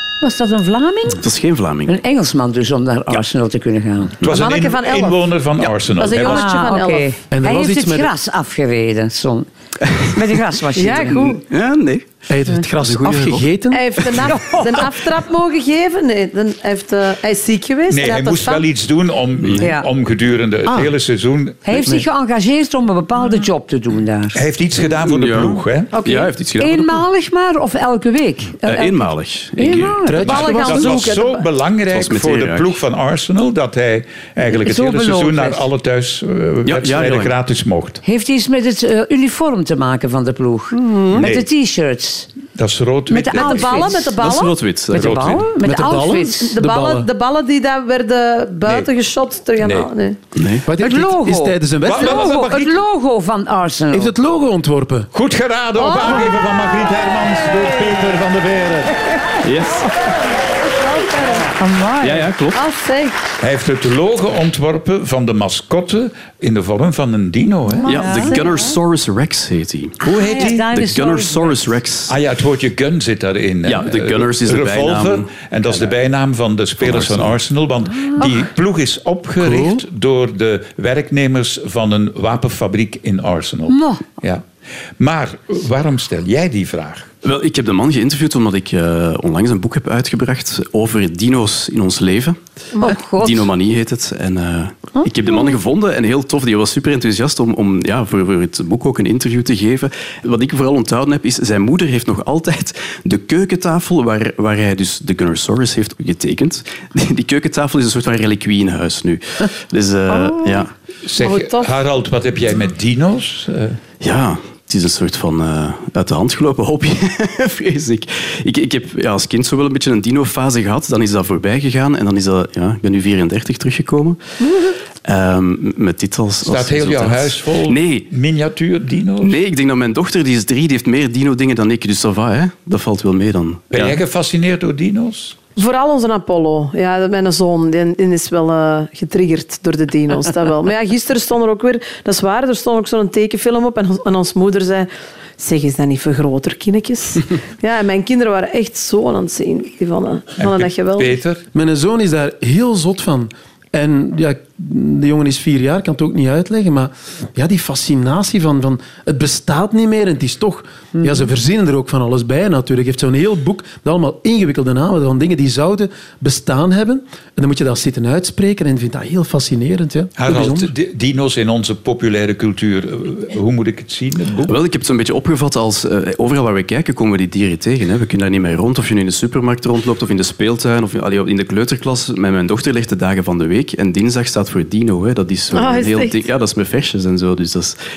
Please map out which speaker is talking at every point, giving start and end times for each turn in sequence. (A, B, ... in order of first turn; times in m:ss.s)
0:00.2-0:01.2 A
0:01.2-0:02.0 B
0:01.9-0:04.2 A
0:04.2-0:06.6 C
0:04.3-0:05.2 D
0:05.8-0:07.2 D
0:06.2-0:11.4 A
0:07.3-0:08.1 E
0:10.7-0:11.4 D
0:11.5-0:12.2 B
0:12.3-0:14.1 E
0:12.8-0:13.5 B
0:13.7-0:18.6 D
0:14.3-0:14.9 A
0:17.9-0:21.7 C
0:19.6-0:19.9 A
0:20.7-0:20.9 E
0:21.6-0:24.4 A
0:21.8-0:22.0 E
0:24.4-0:25.9 C
0:24.9-0:27.0 B
0:25.9-0:26.3 D
0:26.6-0:30.5 A
0:28.6-0:30.0 B
0:30.1-0:31.0 E
0:30.2-0:31.5 D
0:30.3-0:38.0 C
0:31.9-0:32.8 B
0:34.5-0:35.7 A
0:36.7-0:37.4 B
0:38.0-0:42.3 A
0:40.7-0:41.3 D
0:41.1-0:41.5 C
0:42.6-0:43.9 C
0:43.1-0:44.5 D
0:43.3-0:44.2 A
0:44.0-0:45.3 B
0:44.9-0:45.5 C
0:44.9-0:46.6 A
0:45.6-0:47.1 E
0:46.5-0:50.2 D
0:48.6-0:48.9 C
0:49.6-0:49.9 C
0:50.3-0:50.7 B
0:50.6-0:52.3 E
0:50.8-0:54.2 A
0:51.8-0:52.8 C
0:53.9-0:55.1 E
0:55.1-0:59.2 C
0:55.8-0:57.9 D
0:59.4-0:59.9 B
1:00.7-1:01.5 D
1:01.5-1:02.3 A
1:02.0-1:02.6 B
1:02.5-1:03.2 D
1:03.4-1:08.0 C
1:07.8-1:08.7 A
1:07.9-1:10.0 B
1:08.0-1:08.5 D
1:10.0-1:10.7 C
1:10.0-1:11.7 A
1:10.7-1:12.2 B
1:12.1-1:24.5 C
1:13.6-1:15.5 B
1:16.8-1:17.4 B
1:18.0-1:18.3 A
1:19.4-1:19.8 E
1:23.7-1:24.0 A
1:25.0-1:27.1 C
1:27.2-1:32.4 B
1:32.8-1:33.3 D
1:32.8-1:33.4 A
1:32.9-1:50.7 B
1:51.0-1:53.8 C
1:51.2-1:51.8 D
1:54.0-2:04.2 B
2:05.0-2:08.1 B
2:06.4-2:09.4 C
2:09.2-2:14.0 B
2:13.7-2:15.4 C
2:15.6-2:31.2 D
2:30.4-2:31.4 C
2:31.5-2:50.7 E
2:50.2-2:54.6 C
2:54.4-3:07.8 B
3:05.5-3:06.3 D